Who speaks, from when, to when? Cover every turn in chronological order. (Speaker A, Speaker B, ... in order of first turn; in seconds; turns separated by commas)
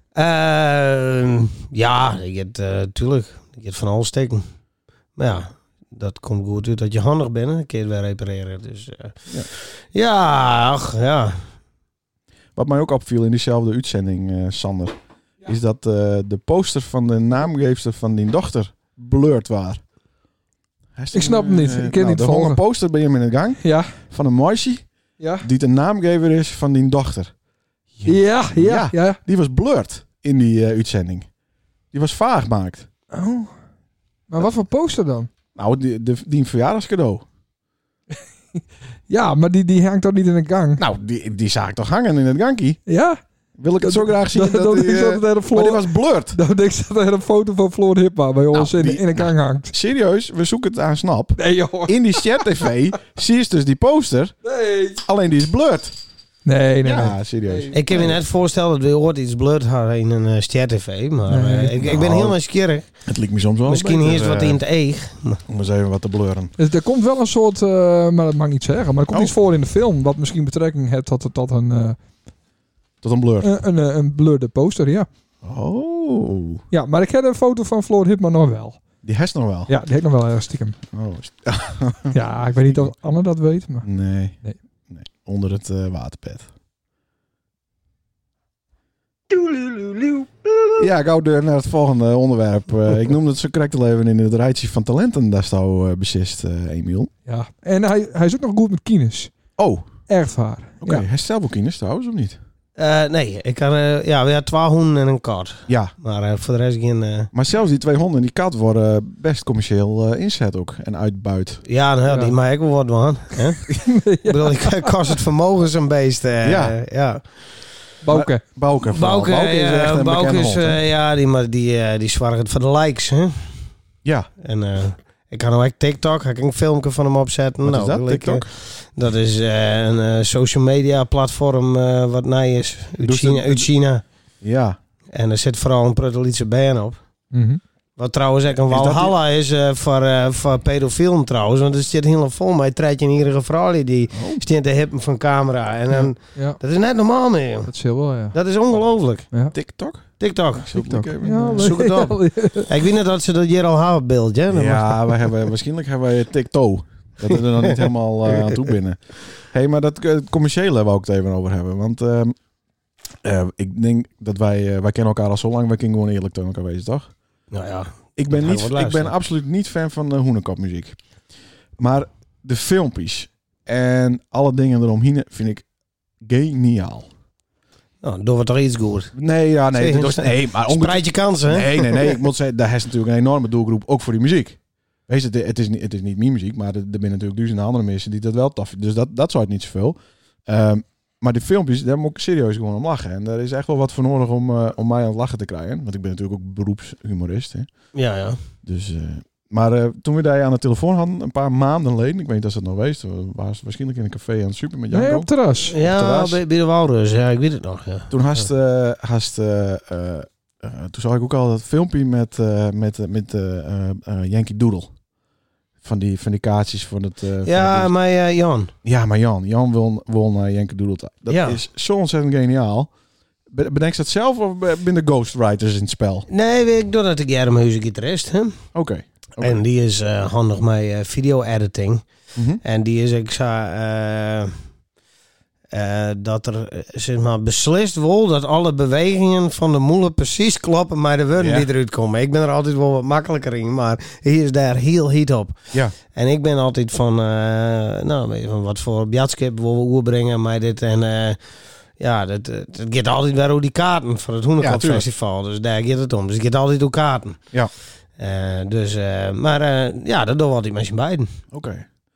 Speaker A: 0.1-4.5, Speaker A: 5.2-11.4, Speaker B: 12.6-19.8, Speaker B: 21.0-24.9, Speaker C: 21.1-22.6, Speaker C: 23.6-24.0, Speaker C: 25.2-25.5, Speaker B: 25.4-27.3, Speaker B: 27.9-31.3, Speaker C: 28.1-29.2, Speaker B: 31.9-32.9, Speaker C: 33.1-33.5, Speaker C: 34.3-35.3, Speaker B: 35.6-37.2, Speaker C: 39.1-40.8, Speaker B: 40.8-42.8, Speaker C: 42.9-43.2, Speaker B: 43.6-46.4, Speaker C: 43.8-49.7, Speaker B: 48.5-54.4, Speaker C: 51.4-52.4, Speaker C: 54.5-55.0, Speaker B: 55.0-56.0, Speaker C: 56.5-57.8, Speaker B: 56.8-58.2, Speaker A: 57.7-62.9, Speaker C: 61.3-61.8, Speaker B: 61.8-62.4, Speaker B: 63.1-64.6, Speaker A: 63.7-65.4, Speaker B: 65.5-66.5, Speaker C: 66.6-72.0, Speaker B: 73.0-73.5, Speaker C: 73.4-75.1, Speaker B: 75.4-76.6, Speaker C: 76.7-78.8, Speaker B: 79.0-79.7, Speaker C: 79.7-80.8, Speaker B: 80.9-82.9, Speaker C: 82.1-83.9, Speaker B: 83.8-84.4, Speaker B: 84.9-86.5, Speaker A: 89.3-90.3, Speaker B: 90.8-97.1, Speaker C: 97.3-99.3, Speaker B: 99.6-99.9, Speaker C: 100.1-101.0, Speaker B: 100.8-102.4, Speaker A: 102.8-107.3, Speaker B: 105.7-105.9, Speaker B: 107.3-111.6, Speaker A: 111.7-117.5, Speaker C: 112.1-112.3, Speaker C: 113.7-114.9, Speaker B: 116.4-116.8, Speaker C: 118.0-118.4, Speaker B: 118.1-120.8, Speaker A: 118.9-123.5, Speaker A: 124.4-134.0, Speaker B: 127.6-128.4, Speaker B: 133.0-133.7, Speaker B: 134.4-134.8, Speaker A: 135.1-137.0, Speaker C: 137.3-137.6, Speaker A: 138.0-147.7, Speaker B: 138.7-139.2, Speaker B: 144.1-144.4, Speaker C: 147.7-148.3, Speaker A: 148.3-149.3, Speaker B: 149.5-151.8, Speaker A: 150.2-150.8, Speaker C: 150.8-152.7, Speaker A: 151.3-155.3, Speaker B: 154.5-162.4, Speaker A: 157.3-158.6, Speaker B: 163.2-167.1, Speaker A: 167.5-169.1, Speaker B: 168.2-171.0, Speaker B: 171.8-175.7, Speaker B: 176.2-177.1, Speaker A: 178.0-179.1, Speaker B: 179.1-197.9, Speaker A: 179.7-182.2, Speaker A: 197.9-198.4, Speaker B: 198.6-206.4, Speaker C: 204.9-205.7, Speaker A: 205.7-208.5, Speaker B: 208.1-214.9, Speaker B: 215.8-217.9, Speaker A: 217.4-218.7, Speaker B: 218.8-222.9, Speaker A: 221.3-221.6, Speaker B: 223.5-226.3, Speaker A: 226.3-228.6, Speaker B: 228.7-229.6, Speaker A: 229.4-232.1, Speaker B: 232.3-232.6, Speaker A: 232.6-234.6, Speaker A: 235.7-245.6, Speaker B: 241.4-241.7, Speaker A: 246.1-251.4, Speaker A: 252.0-257.4, Speaker B: 254.6-255.1, Speaker A: 258.2-261.3, Speaker B: 261.5-261.9